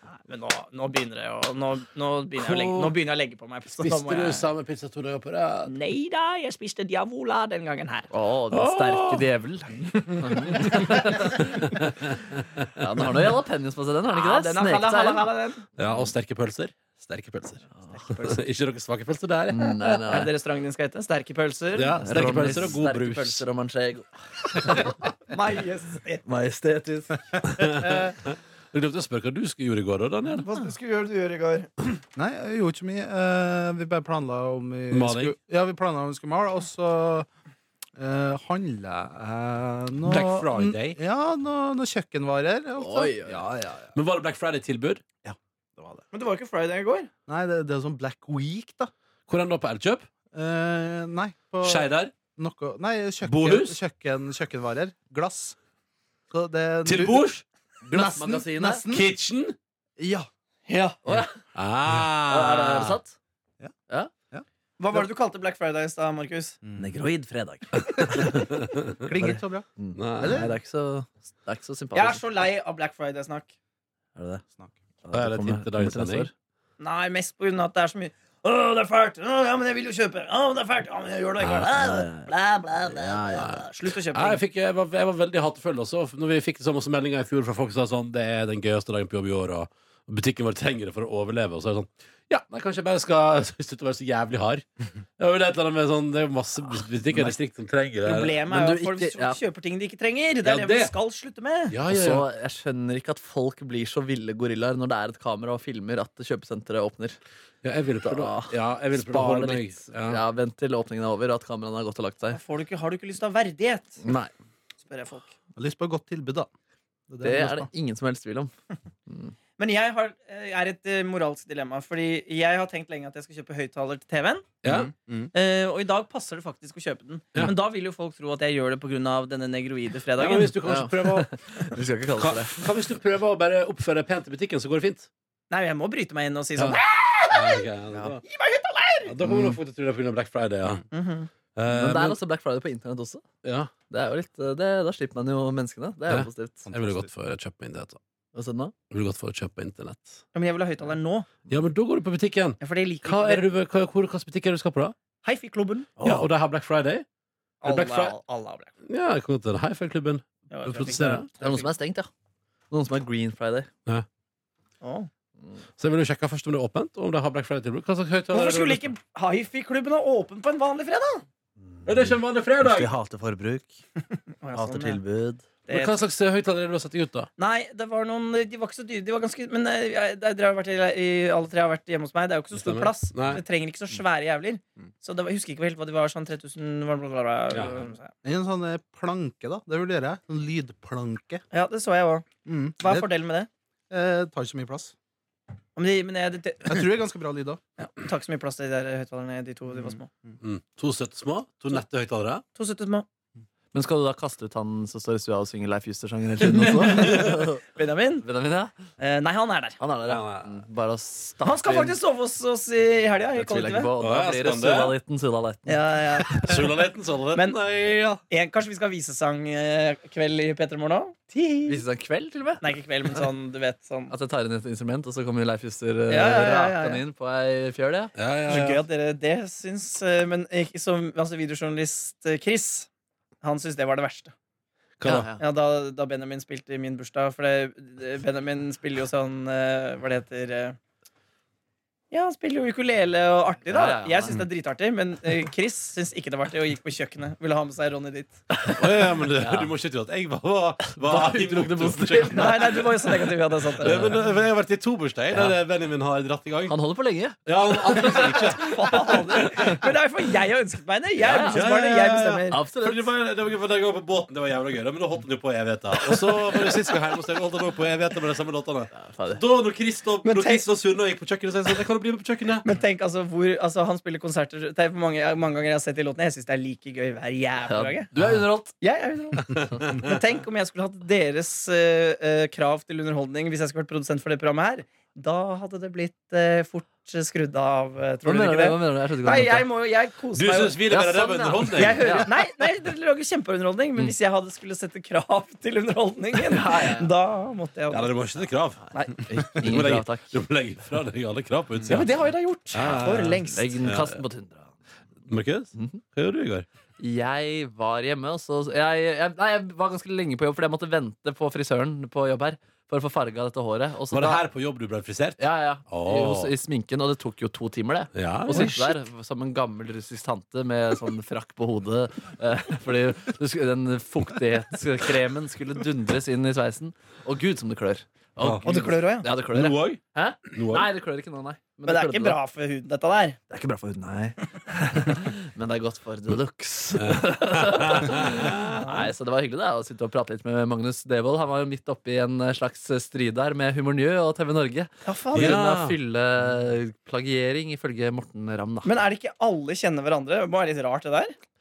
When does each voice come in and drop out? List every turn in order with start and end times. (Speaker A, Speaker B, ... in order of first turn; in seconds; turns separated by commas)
Speaker A: 0.2-4.5, Speaker B: 2.4-2.9, Speaker B: 3.7-5.7, Speaker A: 5.7-8.1, Speaker C: 8.1-11.8, Speaker B: 8.5-9.2, Speaker A: 10.1-10.8, Speaker B: 10.6-12.7, Speaker C: 12.7-15.3, Speaker A: 14.1-15.7, Speaker B: 15.8-20.0, Speaker A: 17.9-18.4, Speaker C: 19.5-20.3, Speaker A: 20.1-22.7, Speaker B: 21.7-23.4, Speaker C: 22.0-25.0, Speaker A: 25.3-26.2, Speaker C: 26.2-27.5, Speaker B: 27.4-30.4, Speaker D: 27.7-28.1, Speaker A: 30.4-31.9, Speaker D: 32.1-37.3, Speaker B: 34.9-35.3, Speaker D: 38.0-43.8, Speaker B: 40.0-41.0, Speaker C: 42.8-43.7, Speaker B: 43.9-45.0, Speaker D: 45.2-46.0, Speaker A: 46.1-47.1, Speaker D: 47.3-48.9, Speaker B: 49.3-50.1, Speaker D: 50.3-55.6, Speaker B: 51.6-52.1, Speaker B: 53.2-53.8, Speaker D: 56.3-57.3, Speaker B: 56.8-57.4, Speaker C: 57.8-58.8, Speaker D: 57.9-59.1, Speaker B: 58.9-59.5, Speaker D: 60.0-60.3, Speaker A: 60.7-61.0, Speaker C: 61.0-61.4, Speaker B: 61.5-63.0, Speaker C: 62.3-63.2, Speaker A: 64.8-66.6, Speaker D: 66.6-66.9, Speaker C: 66.8-68.4, Speaker B: 68.4-68.7, Speaker D: 69.0-70.5, Speaker C: 69.2-72.2, Speaker B: 69.9-70.5, Speaker A: 71.9-73.5, Speaker C: 74.2-74.4, Speaker C: 75.0-76.3, Speaker B: 75.1-76.3, Speaker A: 76.8-84.4, Speaker B: 81.4-81.7, Speaker C: 81.7-82.3, Speaker C: 82.9-83.7, Speaker B: 83.3-94.7, Speaker B: 95.2-98.4, Speaker A: 98.0-101.8, Speaker C: 98.5-99.4, Speaker B: 100.4-100.9, Speaker B: 101.7-102.2, Speaker C: 101.9-107.2, Speaker B: 107.6-110.2, Speaker C: 108.0-112.4, Speaker A: 112.3-114.0, Speaker C: 114.0-114.3, Speaker A: 114.8-115.3, Speaker D: 115.5-116.5, Speaker D: 117.1-117.7, Speaker C: 117.2-118.5, Speaker A: 119.6-124.5, Speaker B: 124.6-124.9, Speaker D: 124.7-125.3, Speaker A: 125.3-130.5, Speaker B: 130.2-131.6, Speaker C: 130.6-132.7, Speaker B: 132.2-135.1, Speaker A: 135.5-137.7, Speaker B: 136.6-138.2, Speaker A: 138.2-139.1, Speaker B: 139.1-140.8, Speaker C: 139.2-139.5, Speaker A: 140.9-141.3, Speaker B: 141.5-142.2, Speaker C: 141.7-143.2, Speaker B: 143.4-143.7, Speaker C: 143.9-146.7, Speaker B: 146.1-148.0, Speaker D: 146.7-147.1, Speaker C: 148.3-148.7, Speaker B: 148.9-150.2, Speaker A: 150.3-151.3, Speaker B: 151.5-154.9, Speaker A: 152.6-153.4, Speaker A: 155.2-156.2, Speaker B: 156.0-157.1, Speaker A: 157.6-158.7, Speaker B: 157.6-158.1, Speaker B: 158.8-161.2, Speaker A: 160.5-161.7, Speaker C: 161.3-162.1, Speaker C: 162.7-163.7, Speaker A: 164.8-165.1, Speaker B: 165.8-168.9, Speaker A: 168.3-171.2, Speaker C: 171.8-173.8, Speaker B: 171.8-172.9, Speaker A: 174.4-175.0, Speaker C: 174.5-175.4, Speaker A: 175.7-175.9, Speaker B: 175.7-177.3, Speaker A: 177.4-188.1, Speaker B: 182.5-183.4, Speaker B: 187.5-187.8, Speaker D: 188.2-191.4, Speaker A: 191.5-192.2, Speaker D: 192.4-193.1, Speaker A: 192.8-193.5, Speaker D: 193.9-194.9, Speaker A: 195.8-196.9, Speaker D: 196.7-197.6, Speaker A: 197.8-200.1, Speaker B: 200.4-202.4, Speaker A: 202.5-203.1, Speaker C: 203.7-207.6, Speaker A: 206.7-208.2, Speaker C: 208.2-208.7, Speaker A: 209.0-209.8, Speaker C: 209.8-212.0, Speaker B: 210.1-210.5, Speaker A: 211.4-213.9, Speaker C: 213.3-215.8, Speaker B: 214.0-214.9, Speaker A: 215.7-217.6, Speaker B: 216.3-218.2, Speaker A: 218.3-221.8, Speaker C: 221.7-222.6, Speaker A: 222.6-224.1, Speaker C: 224.1-228.1, Speaker A: 226.1-227.0, Speaker B: 228.2-228.8, Speaker A: 228.5-232.9, Speaker A: 233.4-234.3, Speaker B: 235.0-235.3, Speaker C: 235.0-235.4, Speaker A: 235.4-240.8, Speaker A: 242.1-248.4, Speaker C: 243.7-244.4, Speaker C: 248.5-249.7, Speaker B: 248.7-253.1, Speaker C: 250.9-253.1, Speaker A: 252.3-254.2, Speaker B: 253.8-256.8, Speaker C: 253.8-254.3, Speaker C: 255.3-255.6, Speaker C: 256.7-258.6, Speaker B: 257.4-259.8, Speaker A: 258.4-262.6, Speaker B: 261.2-272.6, Speaker C: 261.2-261.7, Speaker C: 262.5-263.1, Speaker C: 266.3-266.7, Speaker C: 268.9-269.4, Speaker A: 270.2-270.6, Speaker A: 272.6-278.1, Speaker C: 277.7-278.7, Speaker B: 278.1-278.4, Speaker A: 278.8-298.1, Speaker B: 279.5-280.1, Speaker C: 288.2-289.7, Speaker B: 290.3-292.2, Speaker C: 290.9-292.3, Speaker C: 296.5-297.1, Speaker B: 297.9-302.1, Speaker A: 298.9-299.2, Speaker C: 299.2-300.4, Speaker A: 301.9-303.7, Speaker B: 302.7-304.2, Speaker C: 302.9-304.7, Speaker B: 305.3-306.6, Speaker C: 305.8-306.0, Speaker C: 307.0-314.4, Speaker B: 314.1-316.5, Speaker C: 315.4-332.4, Speaker B: 318.1-318.8, Speaker A: 318.5-318.8, Speaker B: 328.4-328.7, Speaker A: 328.6-329.3, Speaker B: 329.5-330.9, Speaker A: 331.9-333.4, Speaker C: 333.5-348.9, Speaker B: 336.9-338.9, Speaker A: 338.6-339.1, Speaker A: 345.0-345.6, Speaker B: 345.3-346.0, Speaker A: 348.8-351.3